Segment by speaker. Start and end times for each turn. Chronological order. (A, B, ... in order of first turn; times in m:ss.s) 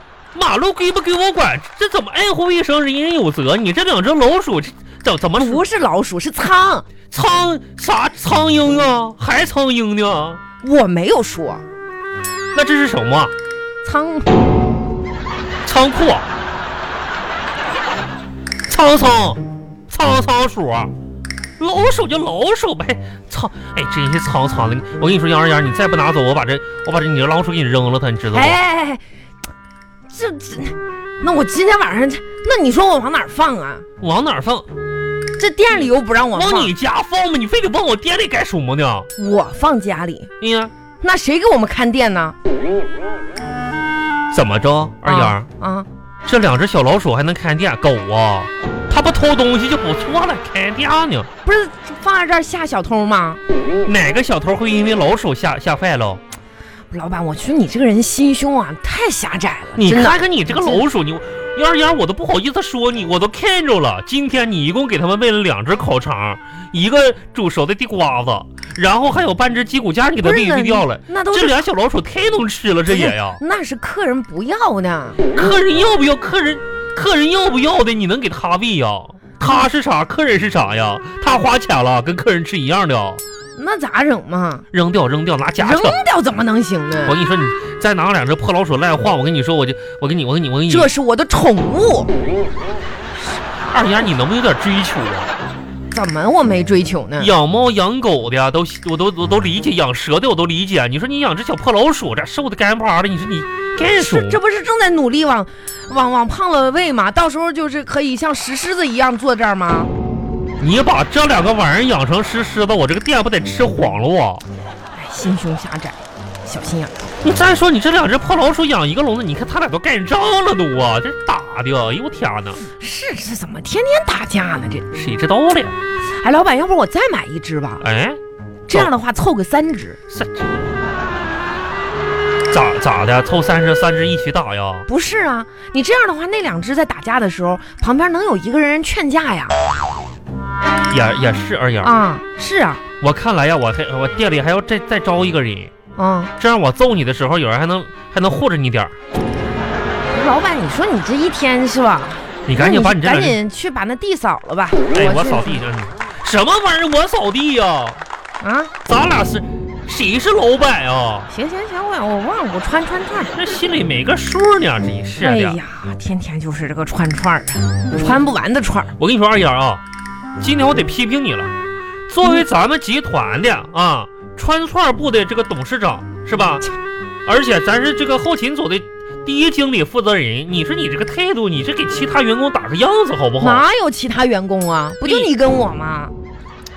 0:00.3-0:05.6 A
0:05.4-0:06.8 B
0:07.1-0:10.4 A
0:10.6-0:11.6 B
0:12.5-0:13.3 A
0:13.8-0:14.4 B
0:15.6-0:16.3 A
0:18.7-0:20.9 A
0:21.6-0:28.6 A
0:28.3-0:29.0 B
0:30.1-0:33.8 B
0:34.0-0:34.6 A
0:35.4-0:36.7 B
0:36.3-0:39.1 A
0:39.2-0:40.3 B
0:40.4-0:40.7 A
0:41.0-0:42.3 B
0:44.3-0:45.5 A
0:45.0-0:45.9 B
0:46.2-0:51.3 A
0:51.4-0:53.4 B
0:53.8-0:56.2 A
0:56.9-1:00.8 B
0:59.8-1:13.4 A
1:10.2-1:11.6 B
1:12.9-1:15.3 B
1:15.3-1:23.2 A
1:23.6-1:24.6 B
1:24.7-1:26.0 A
1:25.6-1:27.1 B
1:27.0-1:30.9 A
1:30.7-1:32.1 B
1:33.2-1:35.3 A
1:35.9-1:37.3 B
1:37.2-1:44.4 A
1:43.8-1:49.9 B
1:50.6-1:54.4 A
1:54.9-1:56.9 B
1:57.2-2:02.6 A
2:02.6-2:04.9 B
2:04.9-2:05.8 A
2:06.1-2:07.8 B
2:07.8-2:08.2 A
2:08.7-2:10.0 B
2:10.1-2:10.5 A
2:12.5-2:14.8 A
2:14.9-2:19.6 B
2:20.9-2:21.9 A
2:21.8-2:22.8 B
2:23.0-2:25.7 A
2:26.0-2:26.3 B
2:26.4-2:28.9 A
2:30.1-2:35.6 B
2:32.4-2:33.4 A
2:34.9-2:38.0 A
2:38.4-2:38.7 B
2:38.8-2:41.3 A
2:41.3-2:43.4 B
2:43.3-2:45.6 A
2:45.2-2:48.9 B
2:49.0-2:49.8 A
2:50.4-2:51.5 A
2:52.1-2:56.6 A
2:57.2-3:03.6 A
3:03.4-3:06.1 B
3:05.0-3:05.3 A